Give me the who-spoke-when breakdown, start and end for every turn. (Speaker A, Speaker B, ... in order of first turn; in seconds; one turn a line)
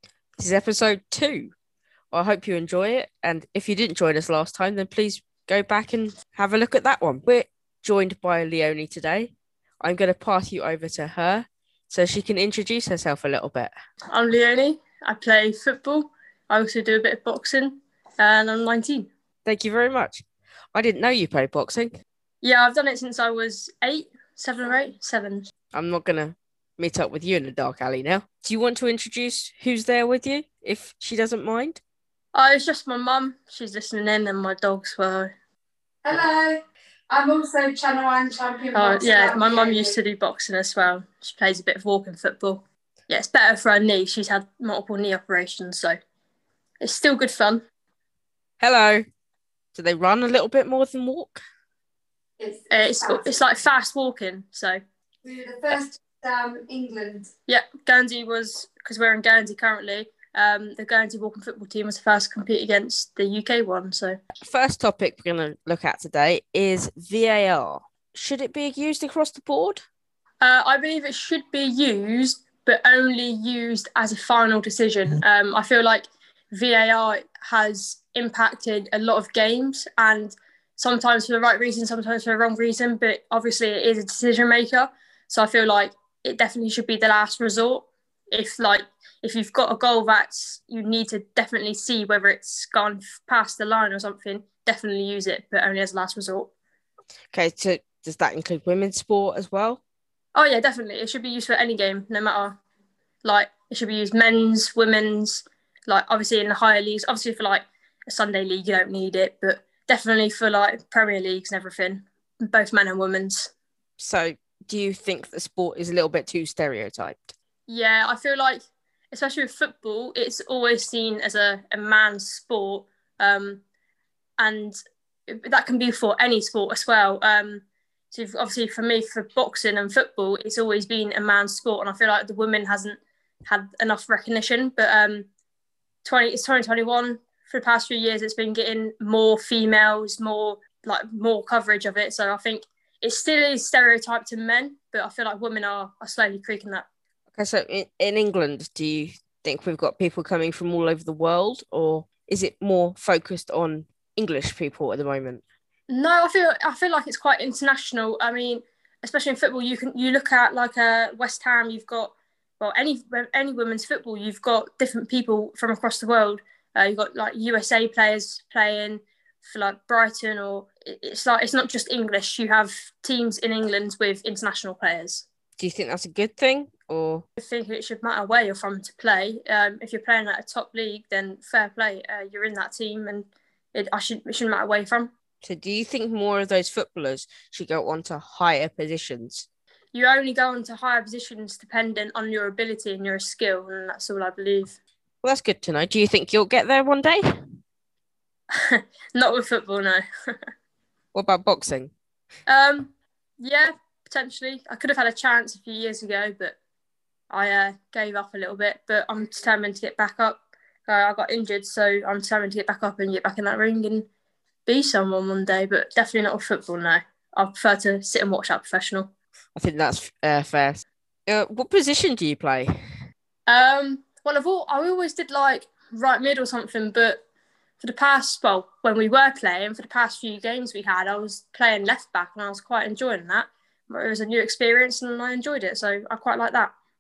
Speaker A: 0.4-1.5
Speaker A: 2.1-13.7
Speaker B: 14.1-19.1
Speaker A: 19.4-22.0
Speaker B: 22.4-25.5
Speaker A: 25.7-31.8
Speaker B: 32.3-35.3
Speaker C: 36.0-39.9
Speaker B: 38.7-46.0
Speaker B: 46.8-47.6
Speaker A: 48.6-49.0
Speaker A: 49.8-51.4
Speaker C: 52.4-53.2
Speaker B: 52.7-54.8
Speaker C: 55.2-57.3
Speaker B: 57.5-64.2
Speaker A: 64.4-69.8
Speaker B: 70.4-96.5
Speaker A: 97.3-99.8
Speaker B: 100.3-102.6
Speaker B: 103.2-113.5
Speaker A: 114.0-117.3
Speaker B: 117.7-123.6
Speaker B: 124.4-124.8
Speaker B: 125.3-135.3
Speaker B: 136.0-146.9
Speaker A: 147.4-155.4
Speaker B: 155.9-175.3
Speaker A: 175.6-177.2
Speaker B: 177.4-185.1
Speaker A: 185.4-189.4
Speaker B: 189.9-194.8
Speaker A: 195.2-197.6
Speaker B: 198.5-200.0
Speaker A: 201.1-201.9
Speaker B: 202.5-206.6
Speaker B: 207.3-214.1
Speaker B: 214.7-219.1
Speaker A: 219.6-222.8
Speaker B: 223.5-227.2
Speaker B: 227.8-236.7